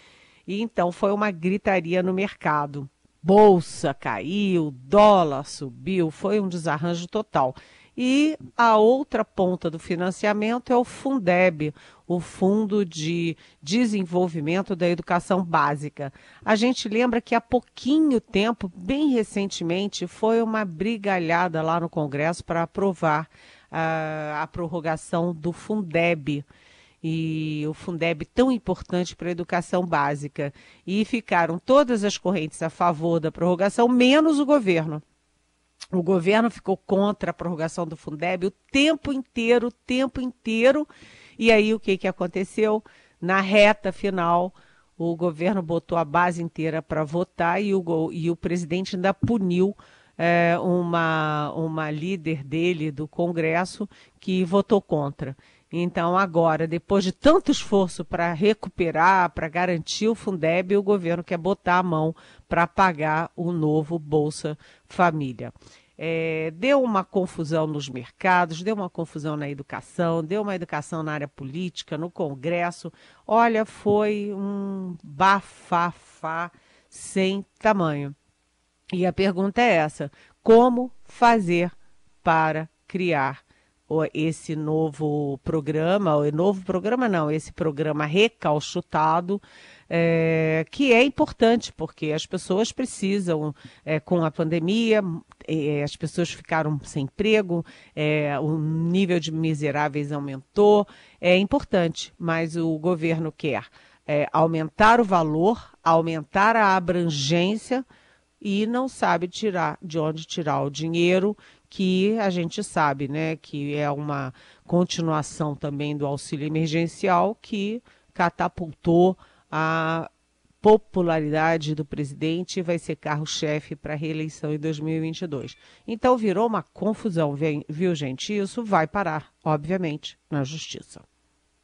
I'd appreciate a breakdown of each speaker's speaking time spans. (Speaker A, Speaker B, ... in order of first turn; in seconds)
Speaker A: 0.5-26.5, 27.0-35.0, 35.9-78.2, 78.9-81.7, 82.2-107.8, 108.4-120.1, 120.6-131.0